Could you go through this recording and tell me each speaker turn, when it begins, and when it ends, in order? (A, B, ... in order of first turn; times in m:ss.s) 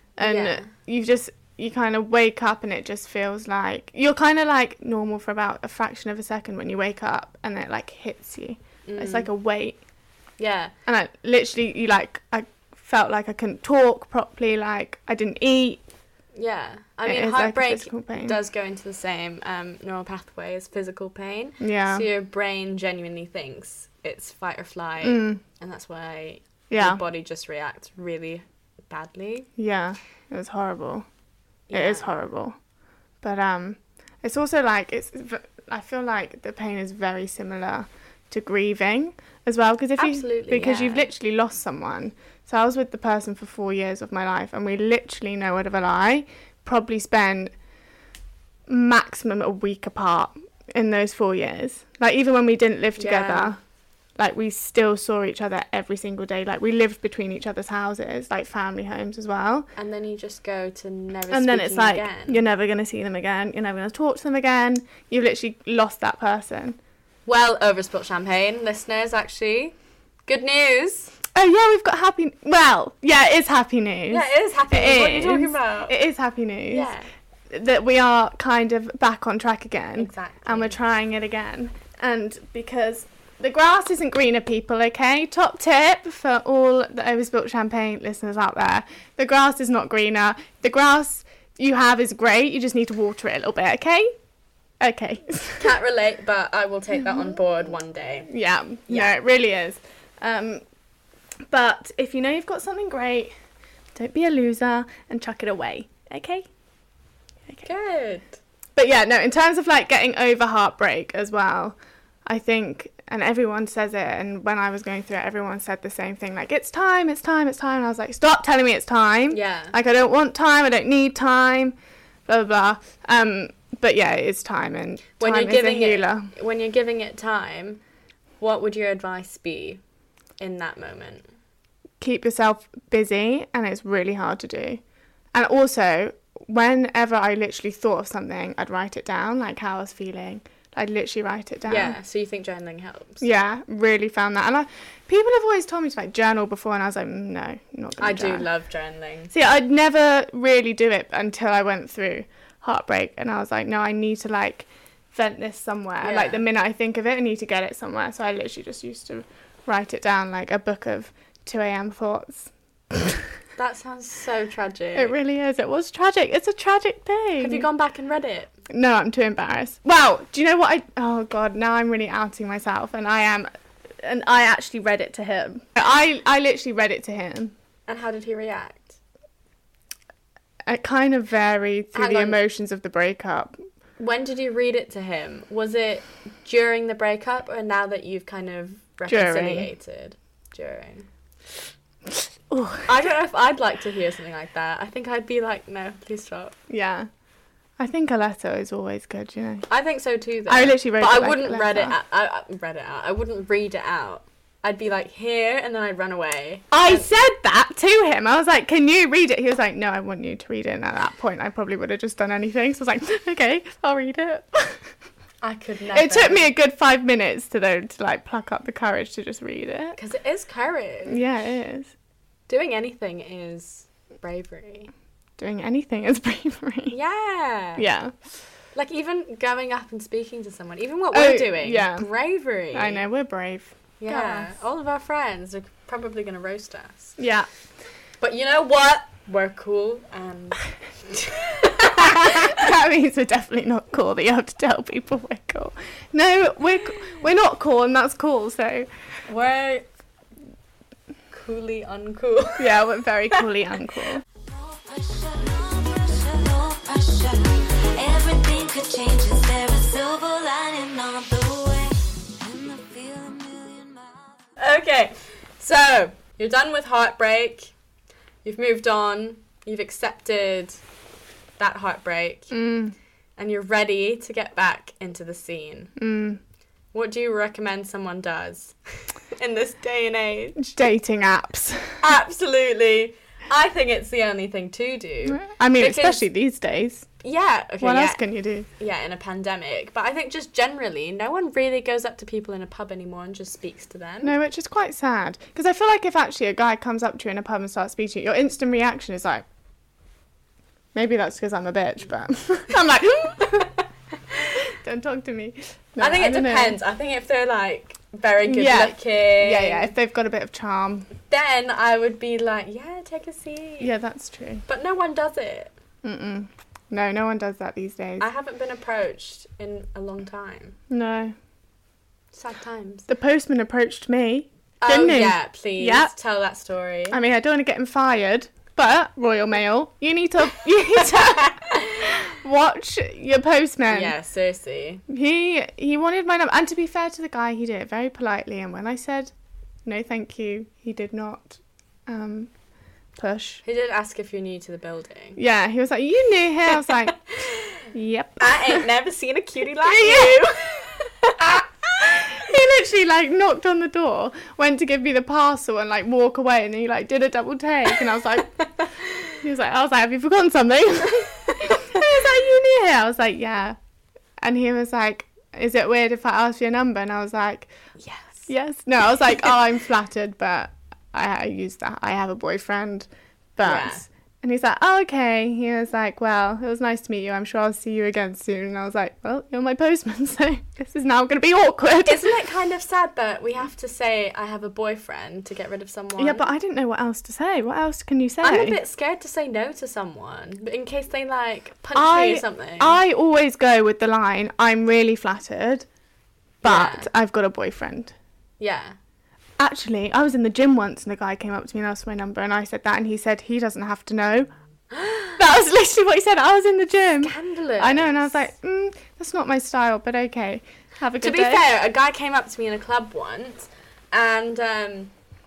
0:00.2-0:09.8 A
0:00.2-0:00.7 B
0:08.8-0:09.3 B
0:10.4-0:10.7 B
0:10.8-0:15.8 A
0:16.3-0:29.5 B
0:17.0-0:18.4 A
0:21.6-0:22.0 A
0:25.0-0:25.4 A
0:26.7-0:27.0 A
0:29.6-0:31.0 A
0:31.7-0:32.1 B
0:31.7-0:32.6 A
0:33.2-0:47.5 A
0:40.0-0:41.1 B
0:48.7-0:53.6 A
0:53.0-0:53.5 B
0:54.2-0:59.7 A
0:59.8-1:02.4 B
1:01.3-1:06.8 A
1:07.2-1:09.8 B
1:10.3-1:11.1 B
1:11.3-1:16.9 A
1:14.1-1:16.0 B
1:16.7-1:17.1 B
1:17.5-1:34.1 A
1:20.0-1:20.8 B
1:34.8-1:35.7 A
1:35.6-1:38.3 B
1:38.3-1:40.6 A
1:41.5-1:43.3 A
1:43.9-1:46.5 A
1:47.6-1:48.4 B
1:48.7-2:01.7 A
1:59.3-1:59.7 B
2:02.3-2:06.3 A
2:05.2-2:07.8 B
2:08.4-2:09.8 B
2:10.4-2:11.2 B
2:12.0-2:14.8 A
2:15.3-2:22.0 A
2:21.7-2:23.2 B
2:23.2-2:28.5 A
2:28.0-2:29.3 B
2:29.3-2:43.2 A
2:36.0-2:36.4 B
2:43.6-2:45.1 B
2:44.9-2:47.7 A
2:47.4-2:48.5 B
2:48.7-2:53.5 A
2:54.0-2:57.5 A
2:57.9-2:59.0 B
3:00.7-3:03.6 A
3:01.9-3:02.4 B
3:04.0-3:11.1 B
3:09.1-3:09.7 A
3:12.5-3:12.9 A
3:12.9-3:16.5 B
3:16.7-3:17.1 A
3:17.8-3:19.7 A
3:19.7-3:27.1 B
3:20.5-3:21.9 A
3:26.7-3:34.8 A
3:35.4-3:36.4 B
3:35.9-3:40.0 A
3:40.0-3:41.2 B
3:41.1-3:41.9 A
3:42.5-3:44.9 B
3:45.4-3:47.0 A
3:46.9-3:47.8 B
3:47.8-3:48.1 A
3:48.7-3:53.0 B
3:51.1-3:52.1 A
3:52.7-3:54.5 A
3:54.0-3:57.2 B
3:57.2-3:57.5 A
3:58.2-4:02.7 B
4:02.0-4:08.9 A
4:09.3-4:09.9 B
4:11.3-4:12.8 B
4:12.6-4:14.2 A
4:14.4-4:24.4 C
4:24.6-4:27.7 B
4:28.4-4:30.8 B
4:31.6-4:32.5 B
4:32.5-4:32.9 A
4:33.4-4:35.9 B
4:36.0-4:36.4 A
4:36.9-4:40.7 B
4:40.6-4:42.0 A
4:42.0-4:46.2 B
4:45.3-4:47.1 A
4:47.2-4:48.2 B
4:47.8-4:48.7 A
4:48.8-4:54.3 B
4:54.2-4:59.4 A
5:00.9-5:03.7 A
5:04.5-5:06.8 A
5:06.0-5:09.9 B
5:08.4-5:11.1 A
5:11.3-5:13.9 B
5:13.8-5:14.6 A
5:14.7-5:15.7 B
5:16.0-5:18.2 A
5:18.2-5:20.7 B
5:20.9-5:21.3 A
5:22.3-5:23.1 B
5:23.1-5:26.1 A
5:24.8-5:27.2 B
5:27.1-5:34.1 A
5:31.2-5:31.7 B
5:33.9-5:35.0 B
5:35.1-5:39.3 A
5:39.8-5:42.5 A
5:43.2-5:43.6 A
5:43.6-5:45.4 B
5:45.4-5:47.2 A
5:46.8-5:47.7 B
5:47.9-5:48.8 A
5:48.4-5:51.6 B
5:49.8-5:50.4 A
5:51.4-5:58.5 A
5:59.4-6:03.8 A
6:04.4-6:07.7 A
6:08.0-6:08.5 B
6:08.5-6:22.3 A
6:13.6-6:14.0 B
6:22.0-6:26.4 B
6:26.2-6:28.8 A
6:28.4-6:33.0 B
6:31.9-6:35.8 A
6:36.6-6:37.1 B
6:36.6-6:38.1 A
6:38.6-6:39.0 B
6:39.6-6:44.5 A
6:44.9-6:45.3 B
6:45.4-6:51.6 A
6:47.2-6:48.4 B
6:51.2-6:55.1 B